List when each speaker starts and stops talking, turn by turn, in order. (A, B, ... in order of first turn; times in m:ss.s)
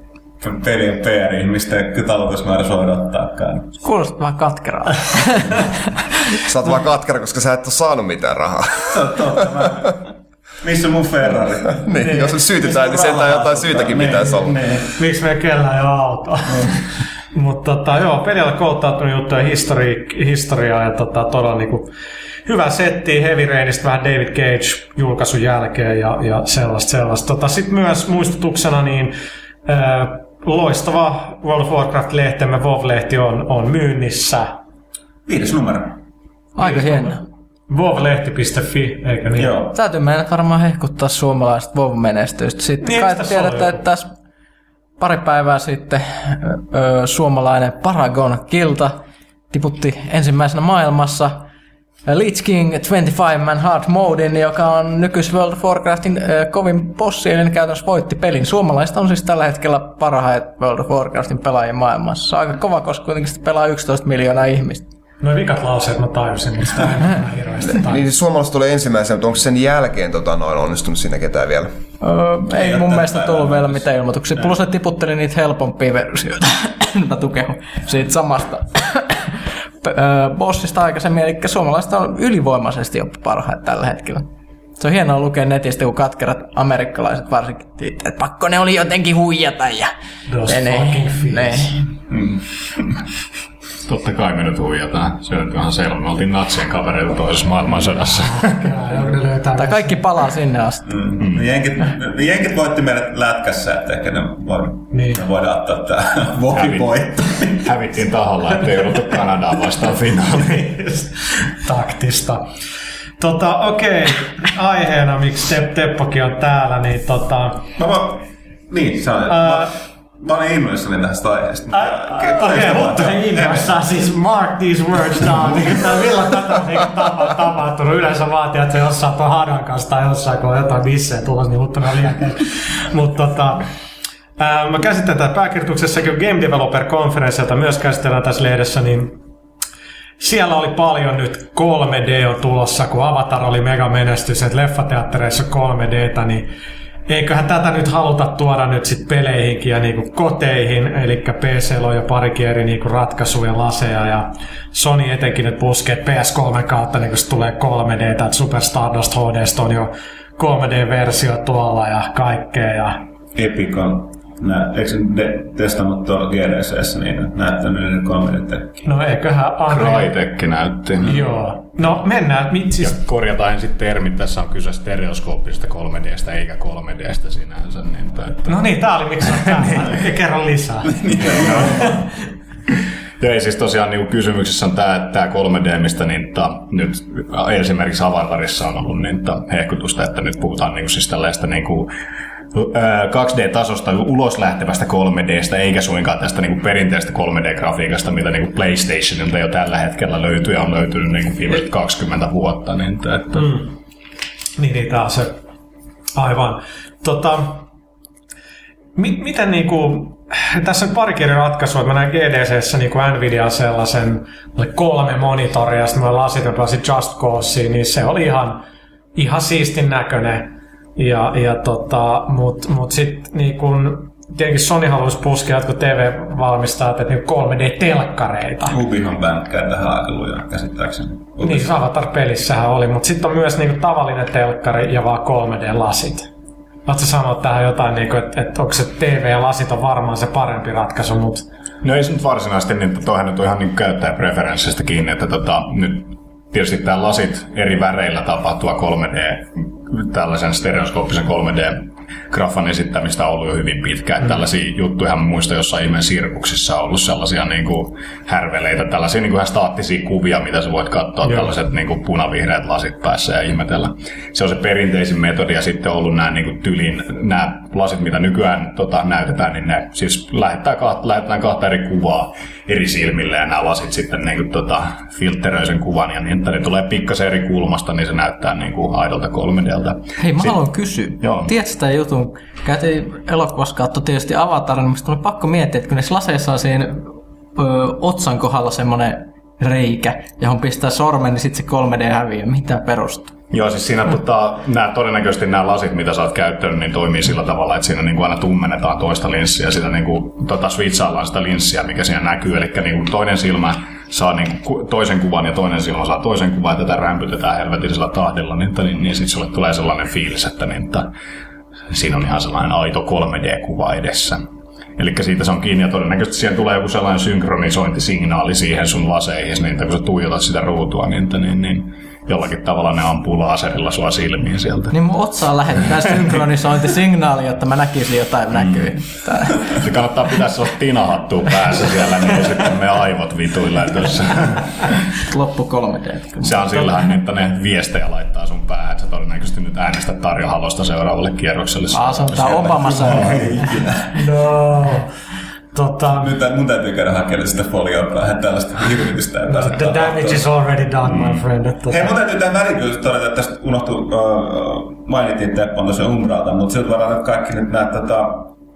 0:00.4-0:03.7 A
0:03.8-0:05.7 B
0:06.4-0:09.0 C
0:08.9-0:15.0 A
0:11.8-0:14.6 C
0:15.0-0:21.9 D
0:22.5-0:29.1 D
0:29.7-0:34.5 D
0:35.3-0:36.0 A
0:36.6-0:37.2 B
0:36.6-0:39.6 D
0:39.4-0:39.7 A
0:39.7-0:44.1 B
0:42.8-0:43.8 D
0:45.0-0:49.0 B
0:49.5-0:51.5 B
0:52.1-1:04.8 B
1:05.2-1:08.0 D
1:07.7-1:11.7 C
1:12.0-1:24.3 B
1:12.5-1:14.6 A
1:24.8-1:29.9 B
1:30.3-1:31.8 D
1:30.5-1:31.8 B
1:32.1-1:32.9 A
1:33.8-1:38.7 E
1:38.3-1:40.0 D
1:39.6-1:40.9 B
1:40.9-1:47.8 A
1:41.2-1:41.5 E
1:44.9-1:45.2 D
1:46.5-1:46.9 E
1:47.6-1:50.9 E
1:50.7-1:52.5 D
1:53.2-1:57.6 D
1:57.8-2:03.7 A
1:59.3-1:59.7 D
2:01.7-2:13.6 D
2:14.4-2:19.2 D
2:20.2-2:26.5 D
2:27.1-2:43.0 D
2:43.4-2:48.8 A
2:48.8-2:50.1 D
2:49.7-2:51.2 E
2:51.0-2:53.0 D
2:52.8-2:58.6 E
2:58.5-3:01.9 D
2:59.4-2:59.9 E
3:01.0-3:02.0 A
3:01.2-3:02.0 E
3:03.2-3:11.9 E
3:12.5-3:23.6 E
3:23.3-3:23.7 D
3:24.6-3:25.4 D
3:26.2-3:27.6 D
3:29.0-3:38.6 D
3:39.2-3:48.8 D
3:48.7-3:51.7 A
3:51.4-3:56.3 D
3:56.9-4:01.4 D
4:01.8-4:40.6 E
4:21.2-4:21.5 D
4:40.2-4:53.4 B
4:41.2-4:41.5 E
4:53.5-5:11.1 E
5:11.9-5:14.5 E
5:15.0-5:25.0 E
5:24.9-5:29.8 B
5:28.5-5:35.0 E
5:35.3-5:36.6 B
5:36.4-5:43.6 E
5:41.9-5:43.6 B
5:43.0-5:44.1 A
5:44.1-5:45.1 D
5:45.7-5:46.3 D
5:46.2-5:50.5 A
5:49.5-5:52.1 D
5:51.9-5:58.5 A